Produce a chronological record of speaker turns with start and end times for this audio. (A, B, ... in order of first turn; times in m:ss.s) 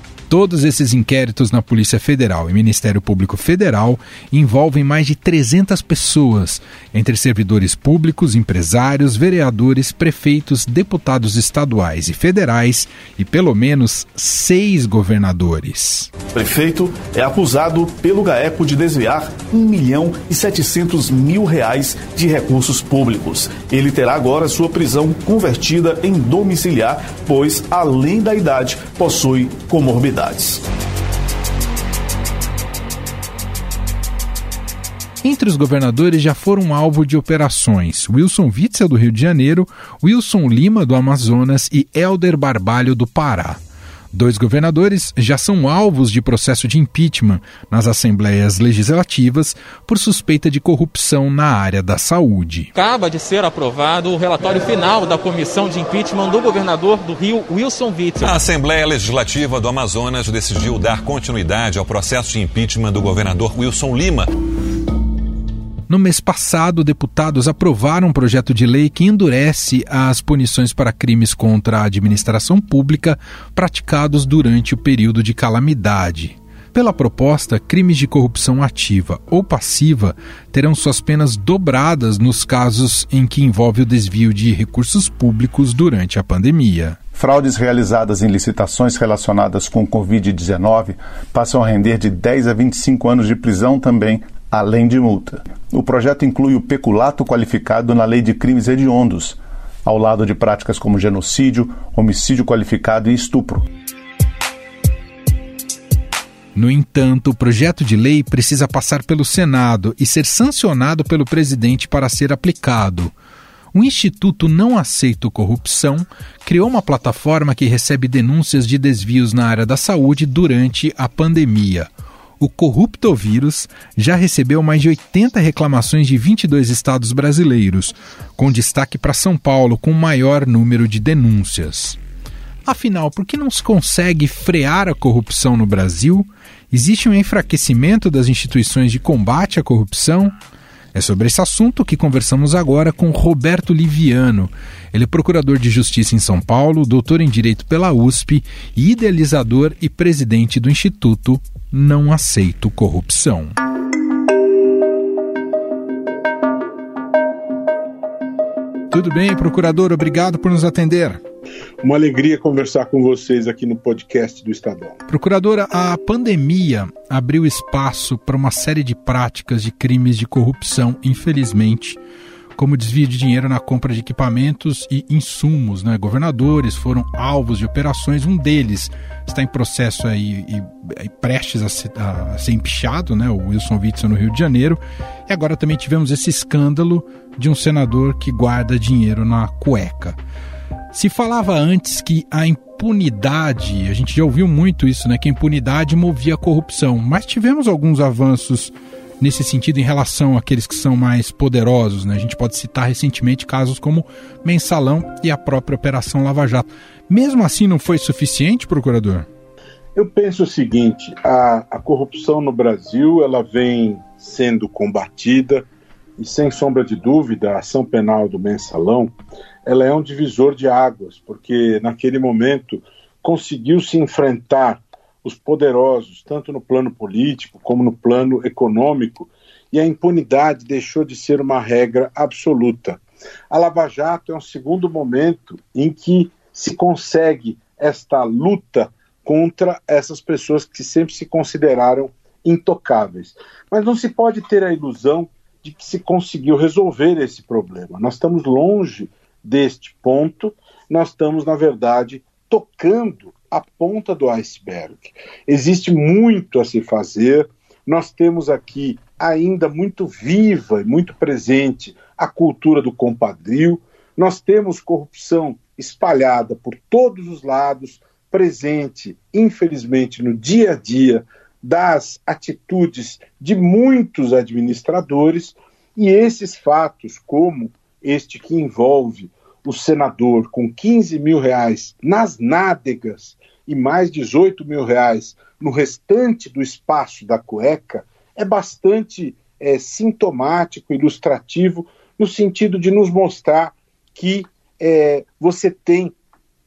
0:00.3-0:16.1 A
0:16.4-0:30.6 B
0:35.2-0:43.6 A
0:44.1-0:52.7 A
0:52.7-0:58.3 C
0:58.2-1:04.3 D
1:05.9-1:27.0 A
1:27.2-1:43.7 E
1:46.6-1:53.1 A
1:53.7-2:01.9 A
2:02.4-2:12.0 A
2:12.6-2:20.4 A
2:20.9-2:33.6 A
2:38.9-2:41.2 A
2:41.8-2:45.0 F
2:45.1-2:52.0 A
2:52.6-3:10.2 A
3:10.9-3:29.3 A
3:30.0-3:35.7 F
3:36.2-4:56.2 F